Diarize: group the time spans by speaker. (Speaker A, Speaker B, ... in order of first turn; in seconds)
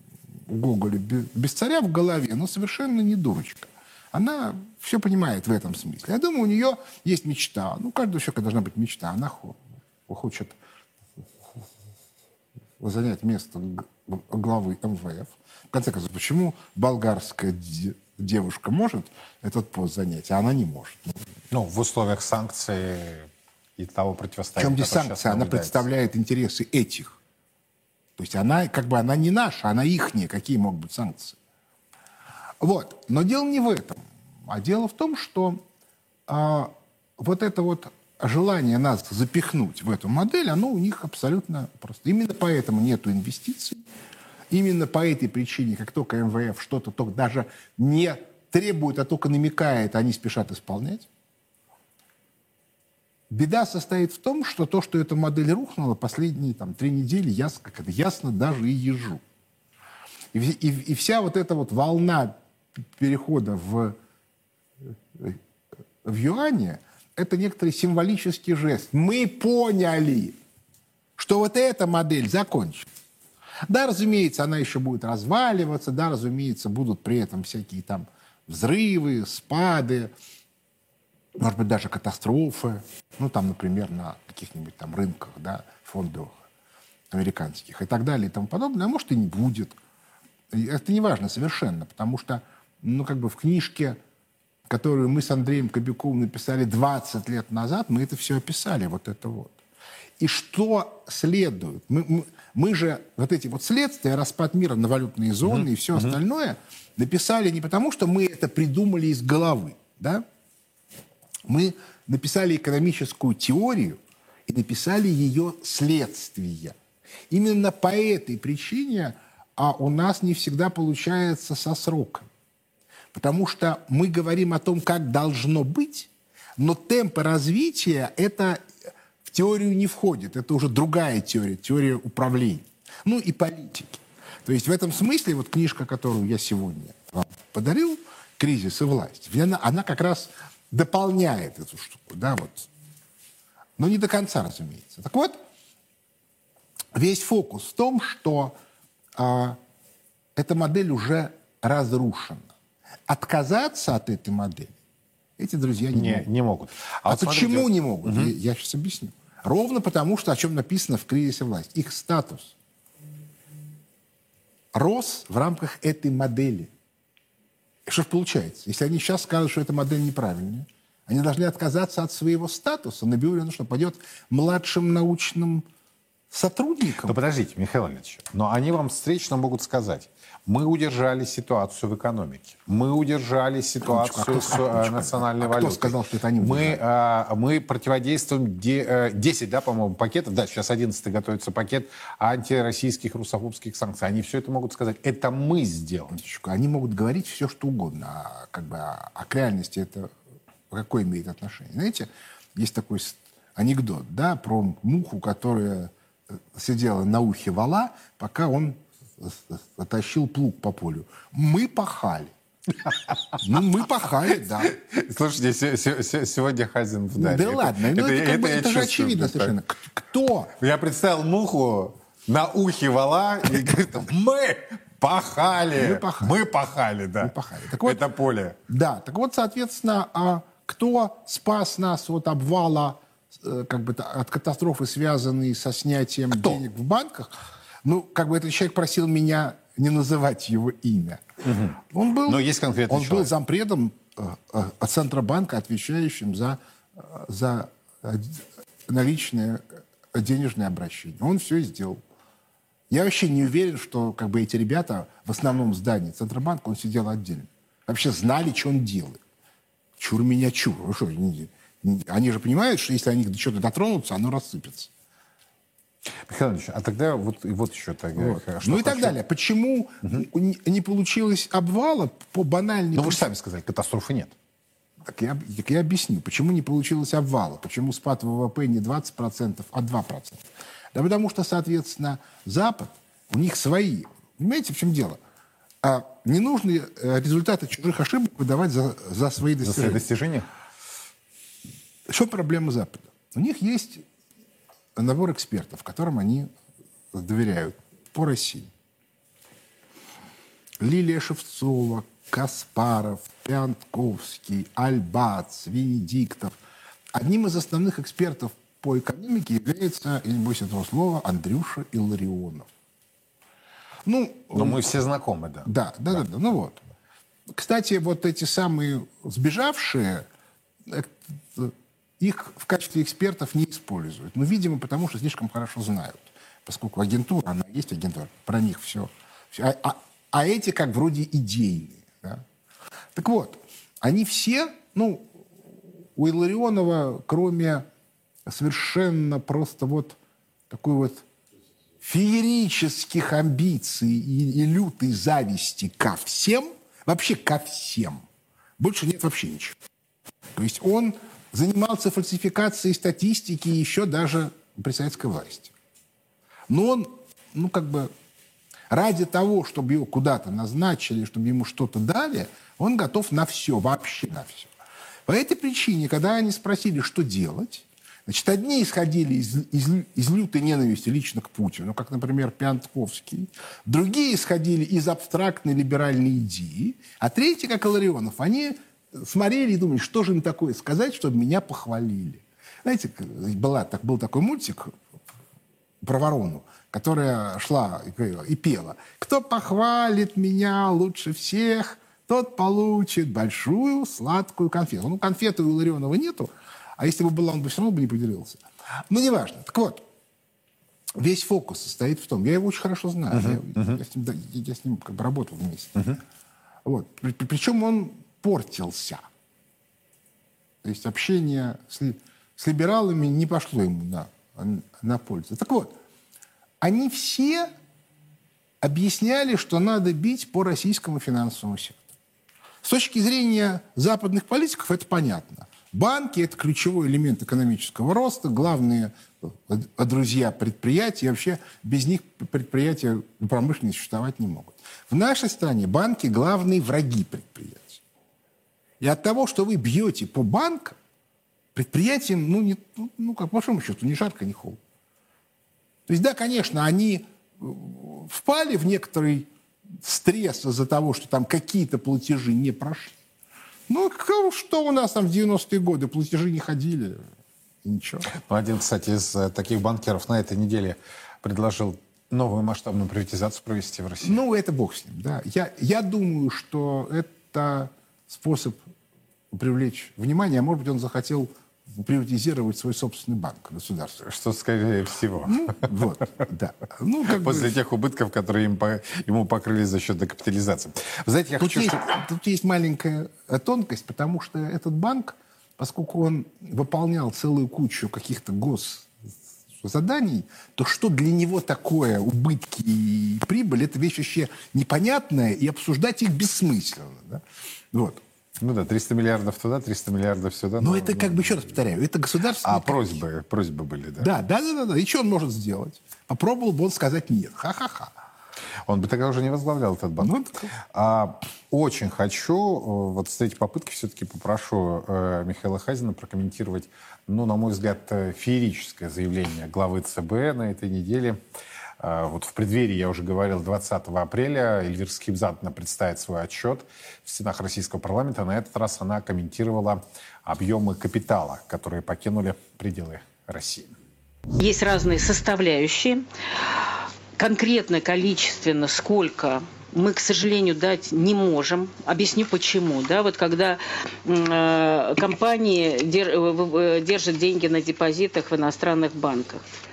Speaker A: 0.5-10.6, 12.8-21.2, 24.6-27.2, 28.2-31.4, 32.6-35.6, 36.3-43.9, 44.5-51.1, 53.3-59.2, 60.3-62.4, 63.0-64.0, 66.0-70.4, 71.2-72.9, 73.7-80.1, 81.4-86.4, 87.1-89.8, 90.5-94.0, 94.7-99.6, 100.2-110.2, 111.5-116.8, 117.3-122.3, 123.1-128.6, 129.2-142.7, 143.8-145.4, 146.9-148.6, 149.2-149.6, 150.4-152.5, 153.1-154.8, 155.4-156.3, 157.1-162.6, 164.7-166.7, 167.9-175.7, 176.3-177.2, 183.8-186.8, 196.1-200.1, 200.7-212.3, 213.4-214.8, 217.1-220.5, 223.6-224.0, 225.8-226.4, 227.2-228.0, 228.7-241.2, 241.9-252.0, 252.9-259.2, 260.0-264.9, 268.2-273.2, 275.1-285.2, 285.8-290.0, 292.1-294.0, 295.0-296.5, 297.1-298.7, 300.8-306.5, 307.1-312.7, 314.1-314.9, 315.6-316.8, 317.5-320.2, 320.9-332.4, 333.1-335.3, 336.2-337.9, 338.5-340.2, 340.7-341.2, 342.0-348.2, 348.8-349.8, 350.5-355.7, 356.7-358.1, 358.9-364.7, 365.2-384.9, 386.0-400.0, 401.2-406.2, 406.8-409.2, 410.8-416.0, 416.8-417.7, 418.8-422.1, 422.8-438.0, 439.0-441.0, 441.8-444.8, 446.1-449.5, 450.0-453.2, 453.9-457.2, 457.8-458.3, 464.2-468.8, 469.5-474.2, 475.4-477.8, 481.6-489.1, 489.8-498.2, 500.8-503.2, 504.2-508.1, 510.2-510.7
Speaker B: 21.5-25.9, 105.5-106.2, 155.9-158.3, 177.1-196.1, 214.6-219.5, 220.6-227.3, 227.8-228.6, 236.3-236.6, 241.4-243.3, 266.3-269.2, 272.9-274.4, 289.6-290.5, 314.5-316.2, 403.3-404.0, 458.3-464.4, 474.2-475.9, 477.3-482.0, 498.6-501.8, 502.6-504.3, 508.9-510.3, 510.9-521.4, 522.0-533.9
Speaker C: 534.6-536.2, 537.4-549.6